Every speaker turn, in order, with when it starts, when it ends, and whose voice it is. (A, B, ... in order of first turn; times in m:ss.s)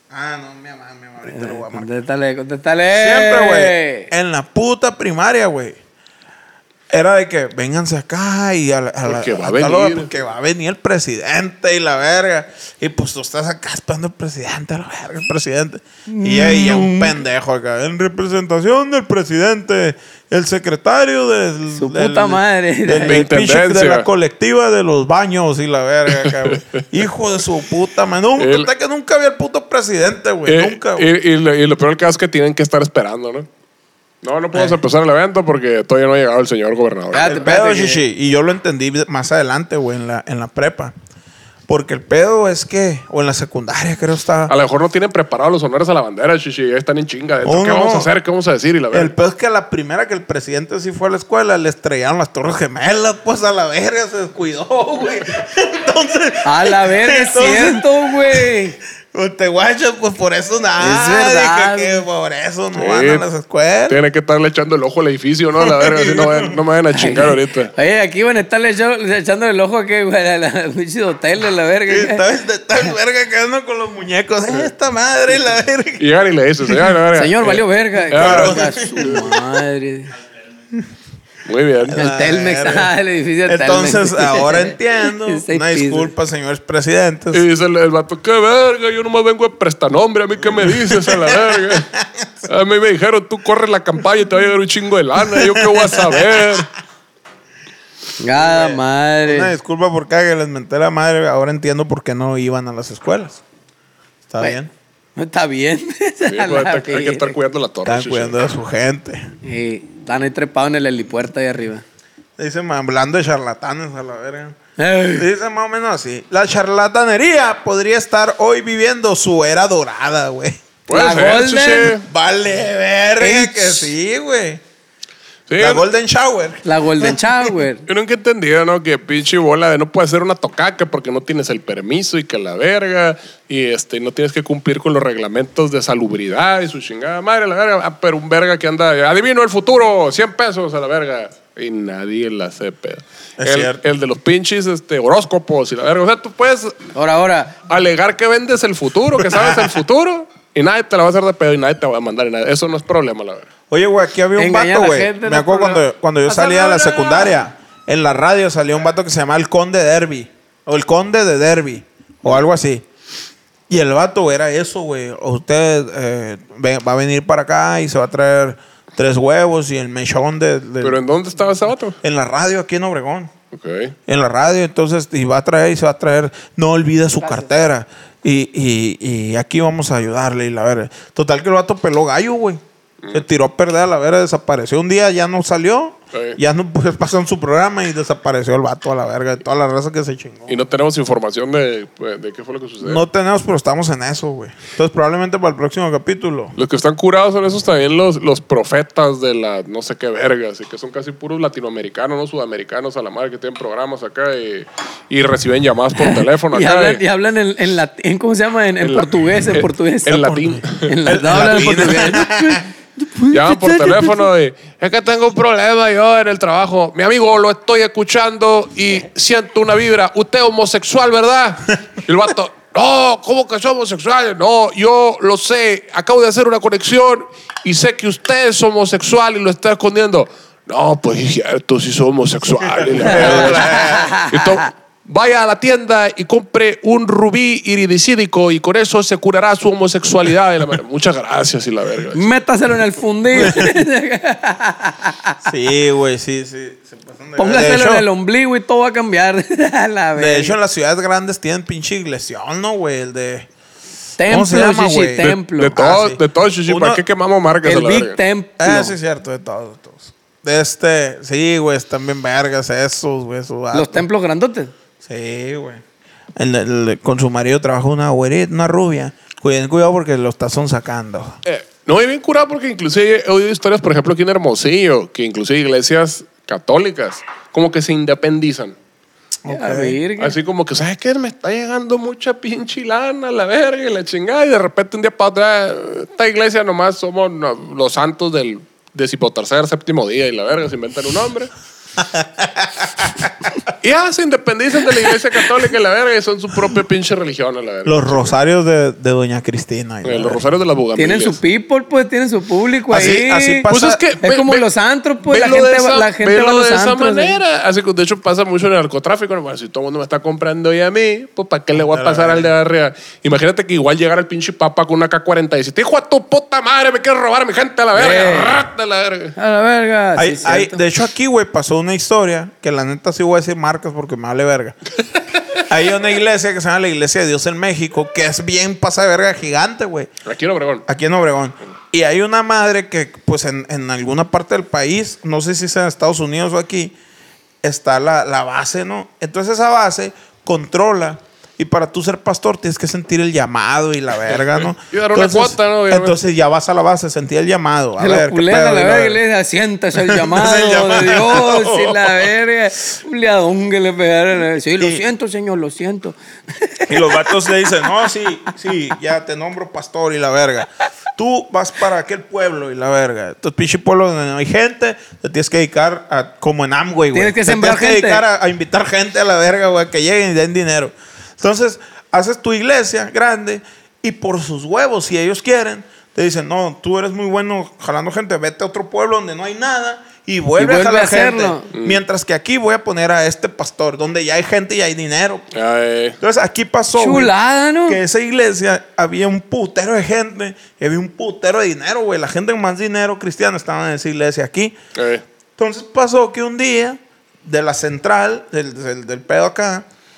0:00.1-0:01.9 A
0:01.3-0:04.1 B
0:02.9-0:05.8 A
0:06.9-0:31.1 A
0:09.0-0:10.1 C
0:16.1-0:17.2 B
0:21.7-0:23.3 B
0:23.0-0:24.1 C
0:26.2-0:26.6 C
0:28.4-0:28.7 C
0:30.5-0:33.5 C
0:34.2-0:37.3 C
0:37.1-0:38.0 B
0:37.2-0:40.9 A
0:41.7-0:44.5 A
0:44.5-0:49.1 C
0:47.4-0:48.1 A
0:48.9-0:58.5 A
0:56.4-0:58.8 B
0:59.1-1:04.0 A
1:00.8-1:02.0 B
1:02.8-1:03.2 C
1:03.9-1:07.7 C
1:05.6-1:06.6 A
1:07.0-1:12.2 B
1:11.9-1:16.1 A
1:16.0-1:18.7 C
1:17.2-1:20.1 B
1:18.1-1:19.4 A
1:21.5-1:22.0 C
1:21.9-1:22.9 A
1:21.9-1:26.1 B
1:23.5-1:27.4 A
1:27.3-1:31.9 C
1:30.8-1:32.3 A
1:32.5-1:36.7 C
1:35.3-1:36.4 A
1:38.2-1:39.5 B
1:38.4-1:43.4 A
1:44.3-1:44.7 A
1:45.2-1:47.4 B
1:46.3-1:48.4 C
1:47.8-1:49.3 A
1:49.4-1:51.8 B
1:52.4-1:54.6 A
1:54.8-1:55.3 B
1:55.1-2:00.6 A
2:00.9-2:02.0 C
2:00.9-2:02.0 B
2:02.0-2:04.6 A
2:03.2-2:03.9 B
2:05.5-2:05.9 C
2:05.6-2:07.2 A
2:06.6-2:07.8 B
2:07.9-2:26.8 C
2:23.4-2:23.8 A
2:27.0-2:27.6 B
2:27.7-2:33.5 C
2:29.3-2:29.7 A
2:33.7-2:42.9 A
2:34.4-2:37.3 B
2:43.7-2:51.0 A
2:50.8-2:52.0 C
2:52.0-2:53.3 A
2:53.5-2:53.9 C
2:54.1-3:02.6 A
2:57.2-2:57.5 B
3:03.1-3:10.6 A
3:06.1-3:06.4 C
3:10.5-3:13.0 C
3:12.8-3:16.6 A
3:16.6-3:27.0 C
3:26.0-3:34.1 B
3:28.8-3:31.9 C
3:30.5-3:32.6 A
3:33.3-4:02.2 C
3:52.7-3:54.2 A
3:53.0-3:54.6 B
4:02.1-4:05.4 B
4:03.4-4:03.7 A
4:05.4-4:08.1 A
4:07.4-4:10.6 B
4:10.2-4:13.5 A
4:14.2-4:15.8 B
4:14.3-4:17.0 A
4:15.2-4:18.2 C
4:17.6-4:18.9 B
4:18.6-4:24.0 A
4:23.7-4:24.7 B
4:25.0-4:25.8 A
4:26.4-4:31.4 A
4:31.4-4:38.8 C
4:39.4-4:40.0 A
4:39.5-4:40.4 B
4:40.2-4:51.5 C
4:52.0-4:52.9 A
4:53.8-4:58.3 C
4:57.8-5:00.4 A
5:00.0-5:01.4 C
5:01.0-5:03.7 B
5:02.9-5:04.0 A
5:03.7-5:04.6 C
5:04.2-5:07.4 B
5:05.2-5:19.4 C
5:11.9-5:12.5 A
5:18.0-5:18.6 B
5:19.4-5:20.8 B
5:20.2-5:24.8 A
5:25.7-5:30.1 A
5:30.2-5:30.8 C
5:30.9-5:37.0 A
5:37.6-5:49.2 A
5:44.9-5:46.2 C
5:48.0-5:57.5 B
5:50.0-5:52.2 A
5:56.9-6:25.4 A
6:07.1-6:08.2 B
6:20.6-6:21.7 B
6:21.7-6:22.0 C
6:25.5-6:26.2 C
6:26.2-6:27.3 A
6:27.0-6:28.0 B
6:27.9-6:34.8 A
6:35.0-6:35.2 C
6:35.6-6:39.9 A